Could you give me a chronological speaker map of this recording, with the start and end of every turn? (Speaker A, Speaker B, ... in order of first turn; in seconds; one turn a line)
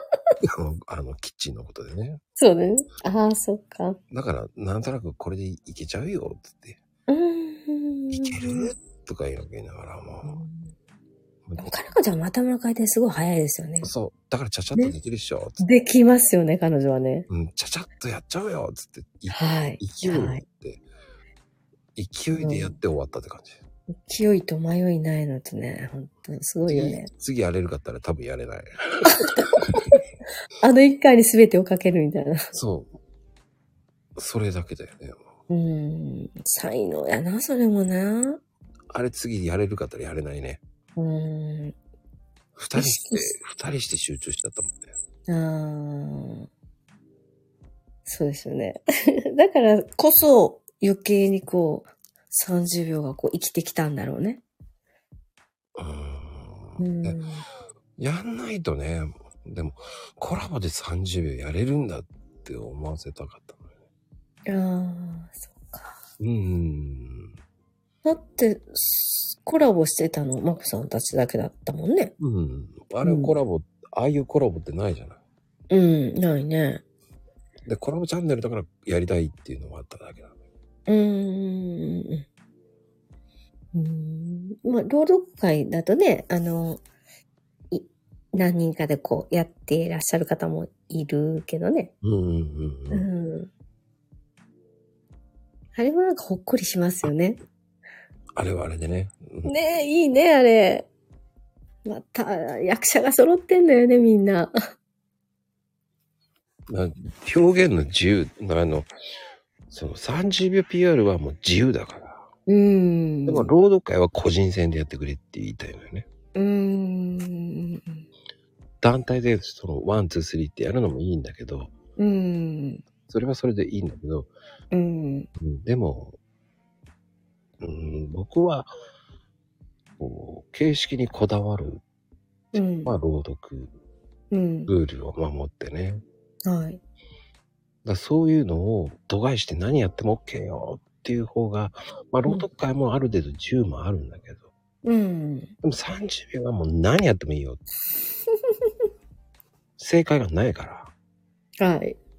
Speaker A: 0.4-2.2
Speaker B: 2.4-4.0
Speaker A: 4.1-6.8
Speaker B: 7.1-8.7
Speaker A: 8.1-10.4
Speaker B: 10.2-10.7
Speaker A: 11.5-11.7
Speaker B: 11.6-13.9
Speaker A: 13.8-15.6
Speaker B: 15.6-17.3
Speaker A: 17.3-20.8
Speaker B: 19.3-20.4
Speaker A: 21.9-23.6
Speaker B: 22.4-22.8
Speaker B: 24.0-27.1
Speaker A: 26.7-29.3
Speaker B: 29.1-29.9
Speaker B: 30.6-32.5
Speaker A: 32.5-32.9
Speaker A: 34.1-35.3
Speaker B: 35.5-38.4
Speaker A: 38.9-40.6
Speaker B: 41.0-41.8
Speaker A: 42.5-44.9
Speaker B: 42.7-43.3
Speaker B: 45.3-46.5
Speaker B: 48.0-48.8
Speaker B: 49.3-54.4
Speaker A: 55.8-57.2
Speaker B: 56.8-57.4
Speaker A: 58.0-63.7
Speaker B: 64.5-66.0
Speaker A: 66.2-67.3
Speaker B: 68.0-72.1
Speaker A: 72.2-75.2
Speaker B: 73.0-73.3
Speaker B: 75.7-76.8
Speaker A: 77.6-80.3
Speaker B: 80.9-82.2
Speaker B: 83.7-86.8
Speaker B: 87.7-91.9
Speaker A: 92.0-93.1
Speaker B: 92.9-93.5
Speaker B: 95.7-97.4
Speaker A: 98.3-99.5
Speaker B: 99.4-100.9
Speaker B: 101.8-104.5
Speaker A: 106.7-108.9
Speaker A: 109.7-112.3
Speaker B: 112.5-113.5
Speaker A: 113.2-116.1
Speaker B: 116.3-118.0
Speaker A: 118.8-121.7
Speaker B: 122.0-122.8
Speaker A: 123.1-124.3
Speaker B: 124.7-125.3
Speaker A: 125.4-126.2
Speaker A: 127.6-128.7
Speaker A: 130.0-131.8
Speaker B: 132.5-133.0
Speaker A: 132.5-133.7
Speaker B: 134.3-134.7
Speaker A: 134.7-136.0
Speaker B: 136.4-136.8
Speaker A: 137.8-144.4
Speaker B: 144.8-145.5
Speaker A: 145.6-147.6
Speaker A: 149.8-150.9
Speaker B: 151.6-152.0